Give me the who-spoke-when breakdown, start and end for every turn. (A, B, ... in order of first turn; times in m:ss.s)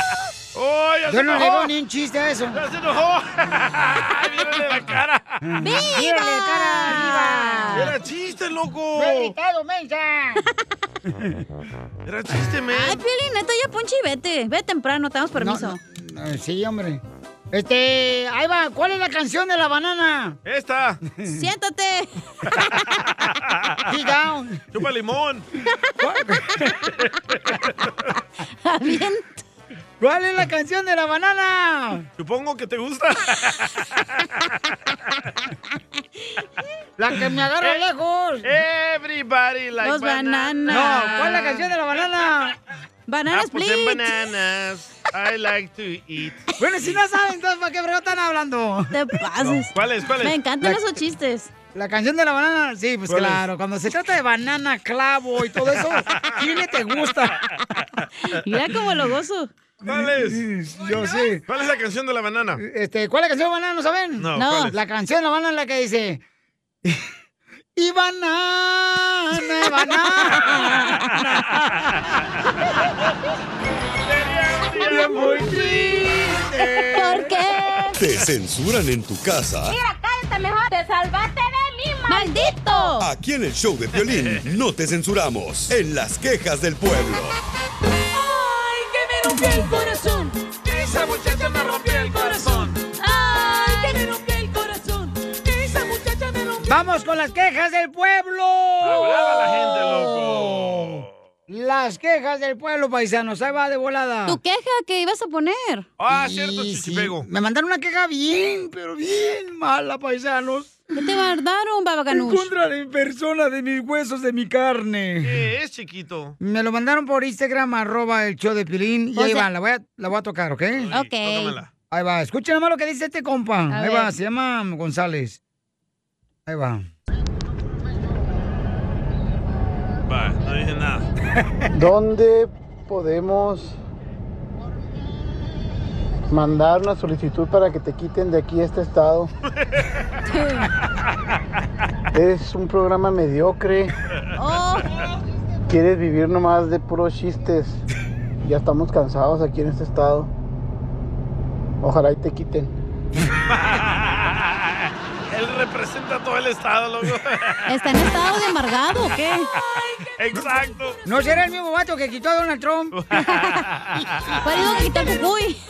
0:00.5-0:01.7 A
0:01.1-0:02.6 B
0:02.5-0:05.4 A
0:05.4-0:07.9 B
0:05.6-0:07.9 C
0:07.7-0:09.3 A
0:08.9-0:10.4 B
0:11.0-0:11.3 B
0:12.0-0:13.0 A
0:12.7-0:15.8 C
0:15.4-0:20.4 B
0:20.4-0:21.0 A
0:21.2-0:21.4 B
0:21.3-0:22.1 C
0:22.6-0:22.8 C
0:23.1-0:23.8 A
0:23.9-0:24.6 B
0:24.7-0:25.5 A
0:26.0-0:26.7 B
0:27.0-0:27.9 A
0:28.6-0:29.4 C
0:30.0-0:32.1 B
0:32.2-0:34.3 A
0:37.0-0:38.6 B
0:38.4-0:41.9 A
0:39.8-0:41.5 C
0:40.7-0:42.6 B
0:43.1-0:44.1 C
0:43.3-0:47.0 A
0:46.6-0:48.9 B
0:48.9-0:49.7 C
0:49.4-0:50.3 A
0:50.2-0:51.5 C
0:51.7-0:57.4 B
0:53.1-0:53.4 A
0:58.3-0:59.5 C
0:59.8-1:00.5 A
0:59.8-1:01.4 B
1:01.5-1:02.6 A
1:02.6-1:06.2 B
1:04.2-1:04.8 A
1:04.4-1:04.7 C
1:07.8-1:10.7 B
1:14.1-1:15.5 A
1:14.8-1:17.3 B
1:15.3-1:15.6 C
1:16.9-1:18.0 C
1:18.0-1:19.8 D
1:19.6-1:22.9 E
1:22.1-1:23.1 C
1:23.0-1:27.4 D
1:28.1-1:36.7 E
1:31.7-1:32.7 A
1:36.6-1:44.4 B
1:38.8-1:41.1 A
1:44.2-1:45.9 C
1:46.0-1:47.2 A
1:46.1-1:50.8 B
1:51.0-1:52.5 C
1:52.1-1:55.4 B
1:55.2-1:56.4 A
1:56.4-2:00.9 B
1:59.2-1:59.5 C
2:00.8-2:01.7 A
2:00.9-2:01.5 C
2:01.9-2:05.4 B
2:03.7-2:04.1 C
2:06.5-2:06.8 B
2:10.1-2:11.0 A
2:11.7-2:13.8 F
2:16.3-2:19.3 F
2:20.3-2:20.7 C
2:22.1-2:23.9 F
2:24.3-2:24.9 C
2:25.7-2:27.8 F
2:28.4-2:30.3 F
2:31.8-2:32.7 F
2:33.4-2:37.7 A
2:37.7-2:39.4 C
2:40.2-2:41.0 A
2:41.0-2:42.9 B
2:42.9-2:44.4 A
2:43.2-2:43.6 C
2:44.4-2:45.6 C